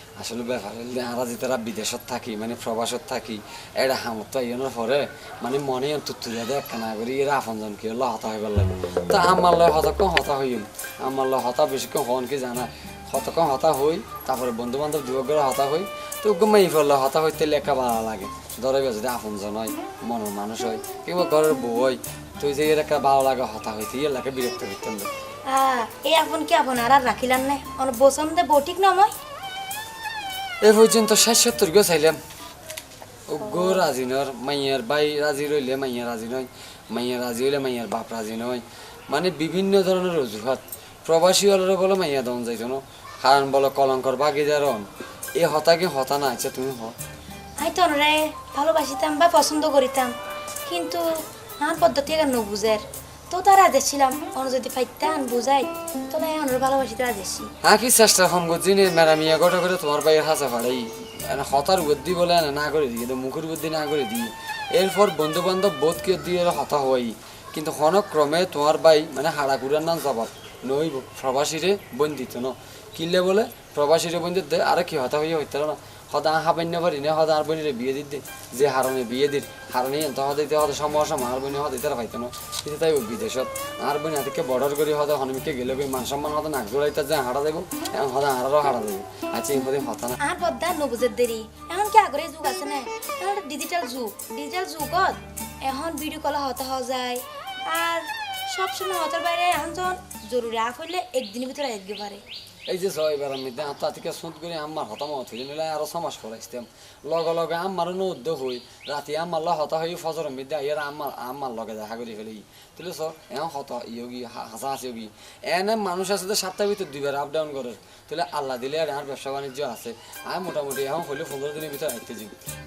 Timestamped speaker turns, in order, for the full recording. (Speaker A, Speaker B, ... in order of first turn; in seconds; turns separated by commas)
Speaker A: 0.2-25.1, Speaker B: 25.5-29.1, Speaker A: 30.6-32.2, Speaker A: 33.3-47.0, Speaker B: 47.6-50.1, Speaker B: 50.7-51.0, Speaker B: 51.6-57.5, Speaker A: 57.6-90.2, Speaker B: 90.2-102.2, Speaker A: 102.7-122.4